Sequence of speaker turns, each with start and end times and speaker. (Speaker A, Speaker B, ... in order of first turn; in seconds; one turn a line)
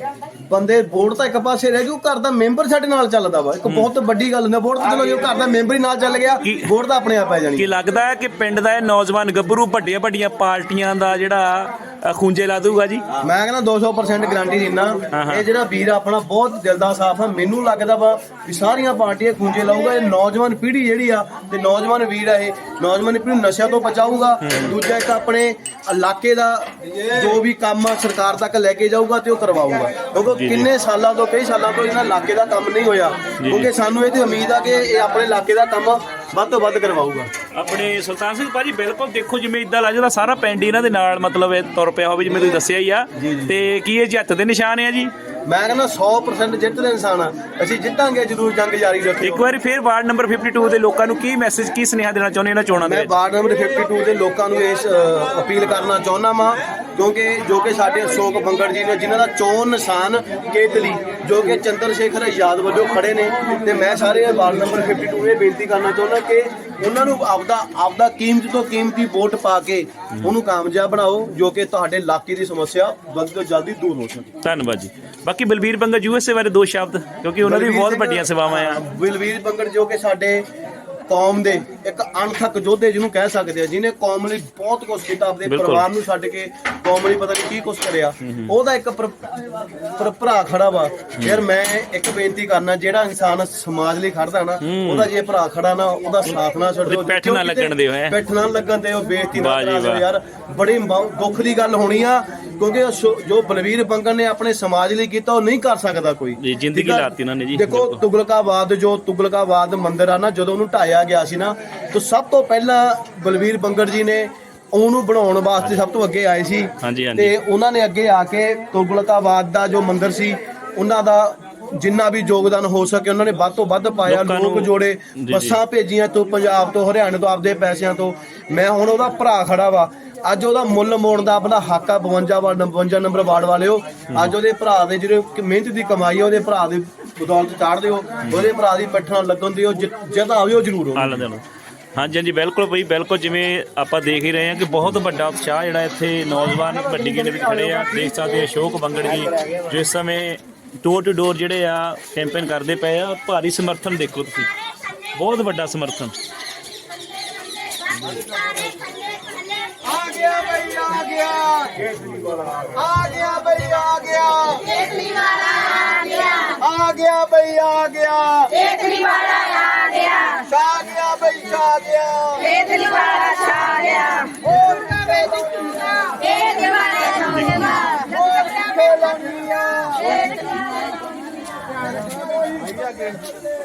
Speaker A: 0.5-7.7
Speaker B: 6.4-6.7
Speaker B: 7.6-13.0
Speaker A: 13.2-37.3
Speaker B: 15.1-15.5
Speaker B: 24.4-24.7
Speaker B: 30.3-30.7
Speaker B: 33.4-33.7
Speaker B: 37.5-45.1
Speaker A: 43.2-43.5
Speaker A: 45.5-49.5
Speaker B: 49.2-53.1
Speaker A: 52.8-74.3
Speaker B: 74.4-78.8
Speaker A: 77.4-80.5
Speaker A: 81.1-141.2
Speaker B: 85.5-85.9
Speaker B: 88.2-88.5
Speaker B: 94.6-95.1
Speaker B: 96.9-98.2
Speaker B: 99.3-100.0
Speaker B: 106.4-108.0
Speaker B: 116.8-117.3
Speaker B: 124.1-125.6
Speaker B: 141.0-141.4
Speaker B: 142.0-154.5
Speaker B: 155.2-156.1
Speaker A: 159.8-165.1
Speaker C: 165.0-166.4
Speaker A: 166.3-168.8
Speaker C: 168.7-170.4
Speaker A: 170.3-172.8
Speaker C: 172.6-174.3
Speaker A: 174.3-176.5
Speaker C: 176.3-177.8
Speaker B: 177.3-177.7
Speaker A: 177.5-180.4
Speaker A: 182.4-183.2